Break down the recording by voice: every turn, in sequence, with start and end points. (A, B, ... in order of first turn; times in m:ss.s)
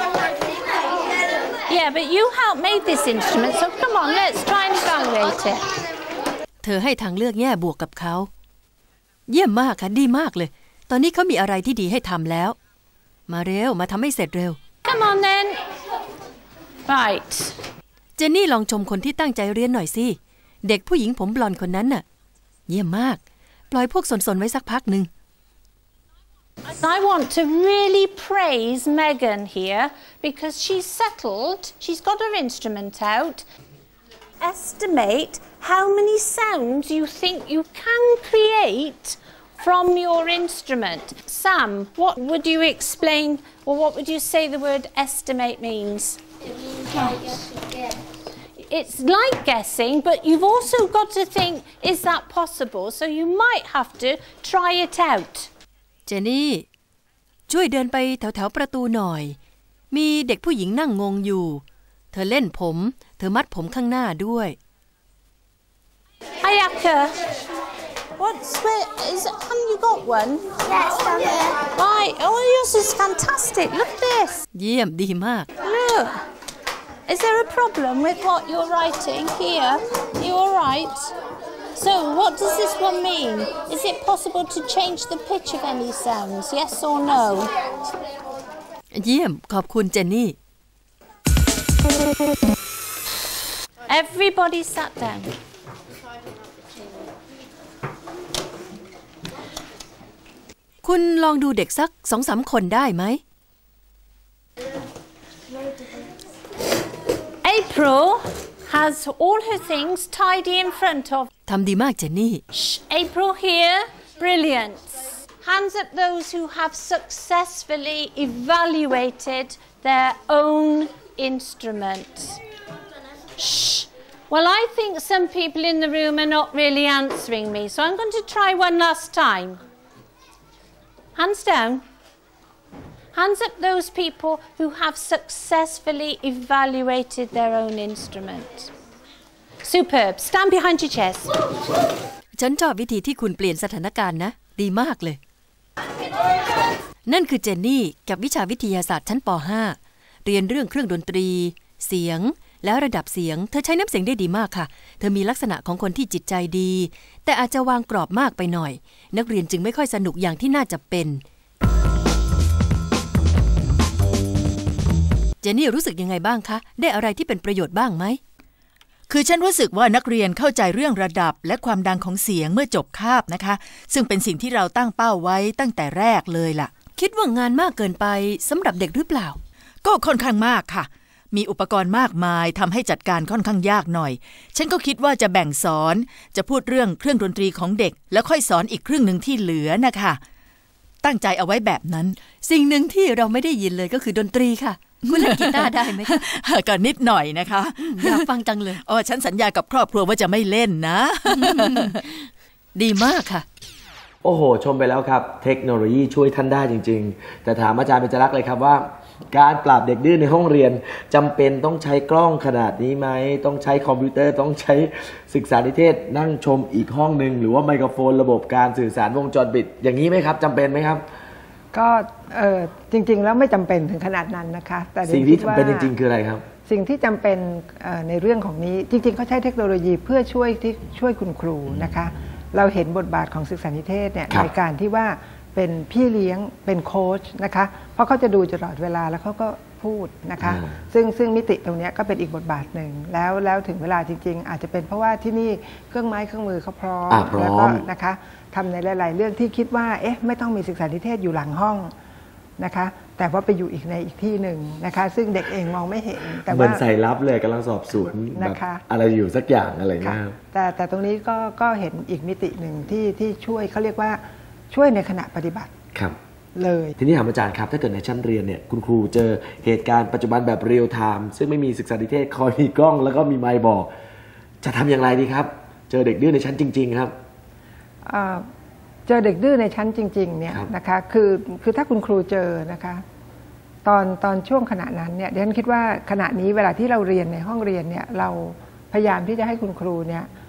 0:01.7-0:05.6 A
0:06.6-0:08.3 B
0:09.3-0:12.6 B
0:13.3-0:14.6 B
0:14.8-0:15.6 A
0:16.9-0:17.6 A
0:18.2-0:22.0 B
0:22.7-0:25.1 B
0:26.8-0:33.4 A
0:34.4-0:46.2 A
0:46.8-0:47.4 A
0:48.7-0:55.5 A
0:56.1-0:56.6 B
0:57.5-0:59.4 B
0:59.9-1:04.6 B
1:06.4-1:07.1 A
1:08.2-1:14.4 A
1:14.5-1:15.5 B
1:15.6-1:16.2 A
1:17.1-1:21.1 A
1:21.8-1:27.5 A
1:28.9-1:30.4 B
1:33.9-1:35.4 A
1:40.8-1:43.2 B
1:47.4-1:51.3 A
1:51.5-1:52.4 B
1:52.5-2:02.4 A
2:03.4-2:09.6 A
2:11.2-2:11.8 A
2:13.1-2:18.7 A
2:19.6-2:21.3 A
2:22.4-2:25.2 B
2:27.0-2:41.2 B
2:45.4-2:48.2 B
2:49.1-2:56.7 C
2:57.0-2:59.4 B
2:59.8-3:10.2 C
3:11.0-3:12.2 C
3:12.4-3:16.2 B
3:15.1-3:18.3 C
3:17.9-3:18.8 B
3:18.8-3:22.0 C
3:21.4-3:22.2 B
3:22.8-3:23.5 B
3:24.2-3:41.0 D
3:41.7-3:45.9 E
3:45.0-3:46.4 D
3:46.6-4:11.9 E
4:00.4-4:00.7 D
4:07.1-4:07.8 D
4:12.6-4:16.8 E
4:16.5-4:20.4 D
4:18.3-4:18.8 E
4:20.0-4:25.7 E
4:26.5-4:27.0 E
4:27.0-4:33.9 D
4:34.6-4:37.1 D
4:38.0-4:38.4 E
4:39.0-4:43.0 E
4:43.8-4:50.3 E